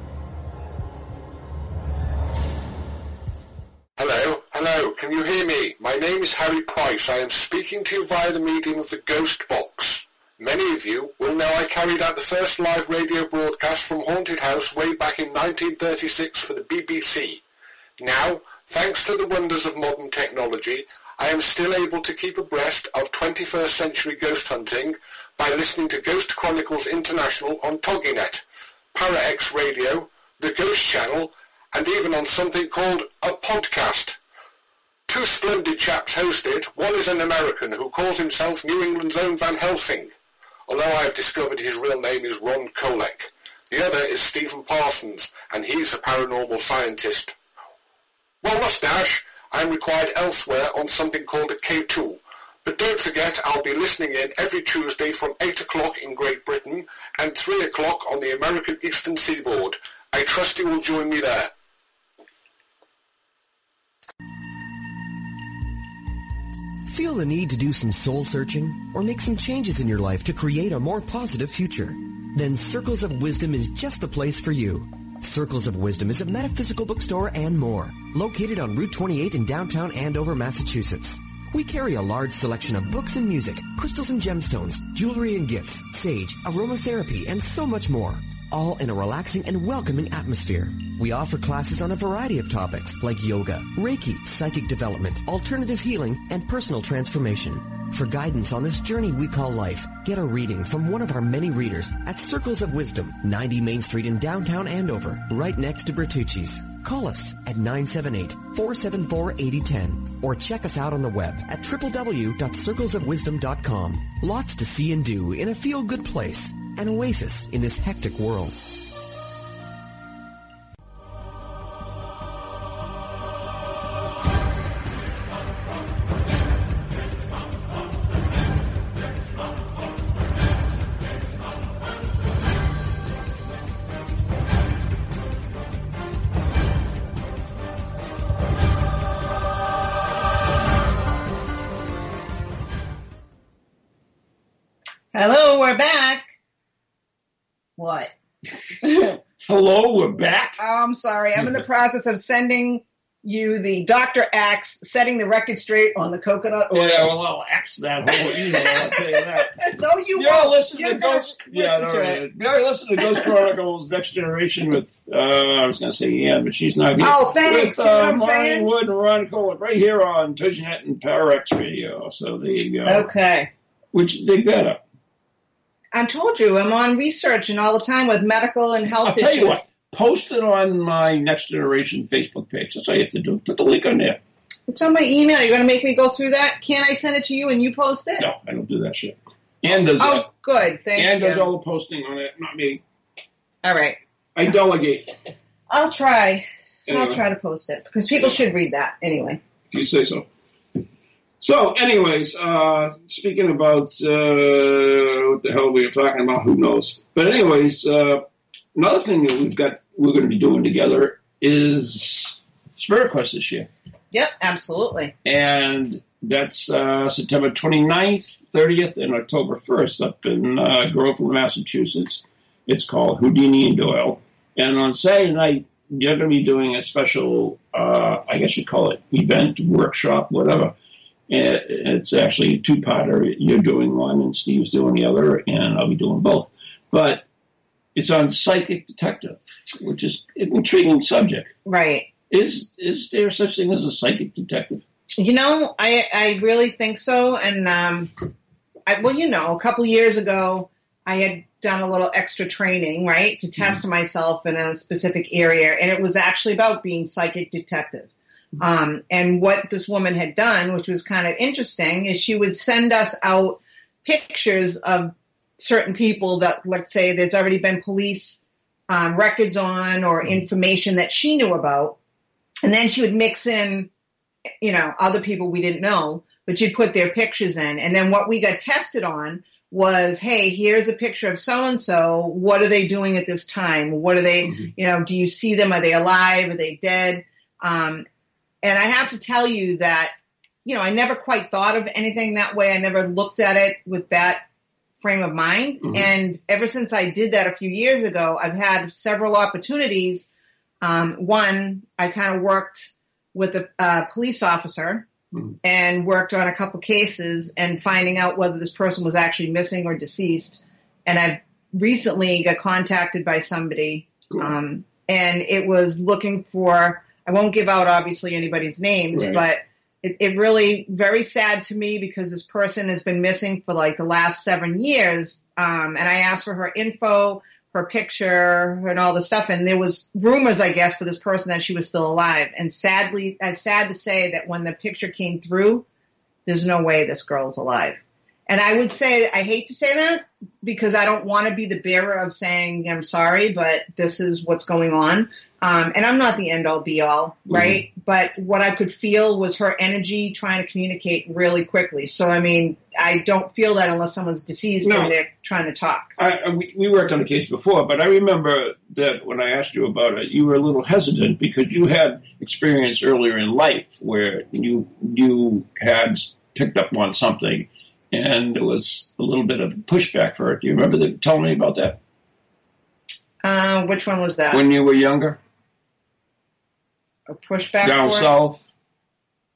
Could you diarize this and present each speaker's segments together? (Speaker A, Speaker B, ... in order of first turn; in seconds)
Speaker A: 4.0-17.4, 18.0-28.4, 28.9-34.2, 35.1-40.1, 40.7-47.3, 48.4-61.5
Speaker B: 66.8-118.6
Speaker C: 145.1-146.2, 147.8-148.1, 150.6-157.1, 158.2-162.2, 167.0-168.7, 172.8-173.5, 175.9-179.6, 184.7-188.2, 190.0-191.5, 193.6-194.0, 195.7-199.4, 214.1-215.1, 241.7-242.1, 245.2-248.1, 248.9-272.0, 272.6-273.9, 274.6-288.1, 288.6-290.1, 290.6-294.4, 295.0-300.3, 300.8-305.1, 305.6-335.8, 336.4-356.1, 373.4-374.6, 377.3-378.3
Speaker D: 148.9-150.6, 156.7-159.6, 160.2-173.1, 173.9-174.8, 179.0-184.2, 188.2-190.3, 190.9-192.8, 194.3-195.1, 196.9-197.2, 199.7-200.3, 201.4-208.2, 208.7-213.7, 215.2-230.7, 231.3-237.2, 237.9-241.5, 242.3-244.8, 284.4-284.7, 295.8-296.1, 319.1-319.4, 347.5-347.8, 354.8-355.1, 356.2-372.0, 374.5-375.4, 377.8-378.6